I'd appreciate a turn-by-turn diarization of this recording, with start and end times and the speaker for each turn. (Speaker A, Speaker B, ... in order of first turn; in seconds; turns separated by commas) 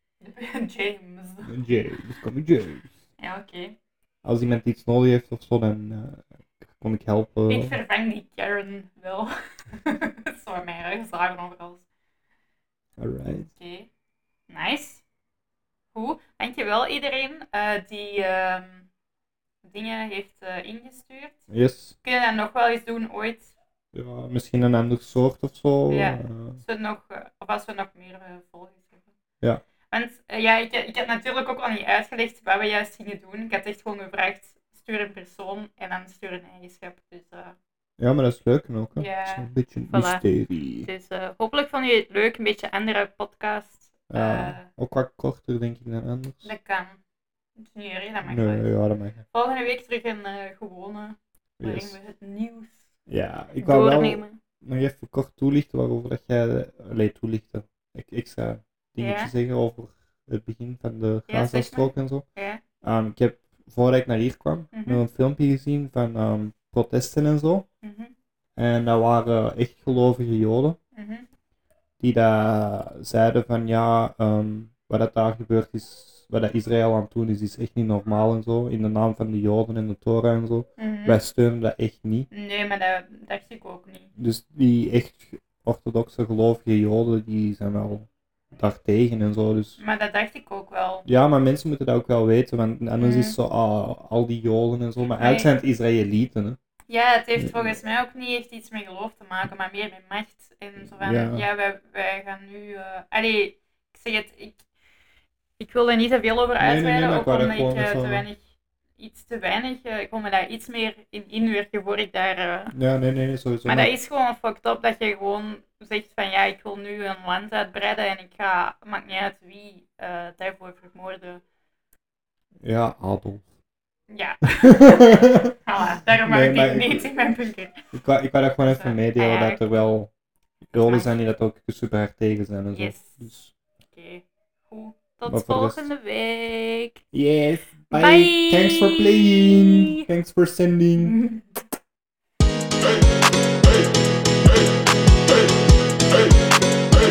Speaker A: 0.2-1.5, Speaker B: 1.4-2.9, Speaker A: 3.2-3.8, Speaker B: 4.2-7.8, Speaker A: 7.5-11.8, Speaker B: 13.0-13.5, Speaker A: 13.5-13.9, Speaker A: 14.5-15.0, Speaker A: 15.9-18.9, Speaker A: 19.6-21.4, Speaker B: 21.5-21.9, Speaker A: 22.0-23.5, Speaker B: 23.9-26.6, Speaker A: 25.9-29.1, Speaker A: 29.9-37.5, Speaker B: 38.0-40.9, Speaker A: 39.0-40.2, Speaker A: 40.8-44.7, Speaker B: 44.1-46.5, Speaker A: 46.4-47.0, Speaker A: 47.6-48.7, Speaker B: 48.2-49.2, Speaker A: 49.3-52.9, Speaker B: 51.6-52.0, Speaker B: 53.1-62.2, Speaker A: 53.6-54.4, Speaker A: 59.0-59.3, Speaker A: 61.3-62.6, Speaker B: 62.8-67.7, Speaker A: 64.7-65.0, Speaker A: 67.8-68.1, Speaker B: 68.5-70.8, Speaker A: 70.9-71.3, Speaker B: 72.0-82.3, Speaker A: 80.8-81.2, Speaker A: 82.3-84.1, Speaker B: 84.2-89.8, Speaker A: 89.8-91.1, Speaker B: 91.0-96.6, Speaker A: 93.0-93.3, Speaker A: 95.2-95.5, Speaker A: 96.9-104.6, Speaker B: 97.4-97.8, Speaker B: 100.8-101.4, Speaker A: 105.6-108.4, Speaker B: 106.6-108.2, Speaker A: 109.0-112.7, Speaker B: 112.7-113.9, Speaker A: 113.6-121.4, Speaker B: 122.6-123.4, Speaker A: 124.1-127.8, Speaker B: 124.7-125.5, Speaker B: 126.2-127.1, Speaker B: 127.9-130.1, Speaker A: 128.7-129.6, Speaker B: 130.7-133.5, Speaker A: 130.9-131.1, Speaker A: 132.7-133.2, Speaker A: 133.9-137.0, Speaker B: 135.2-135.9, Speaker B: 137.1-141.2, Speaker A: 137.9-140.0, Speaker A: 141.0-141.5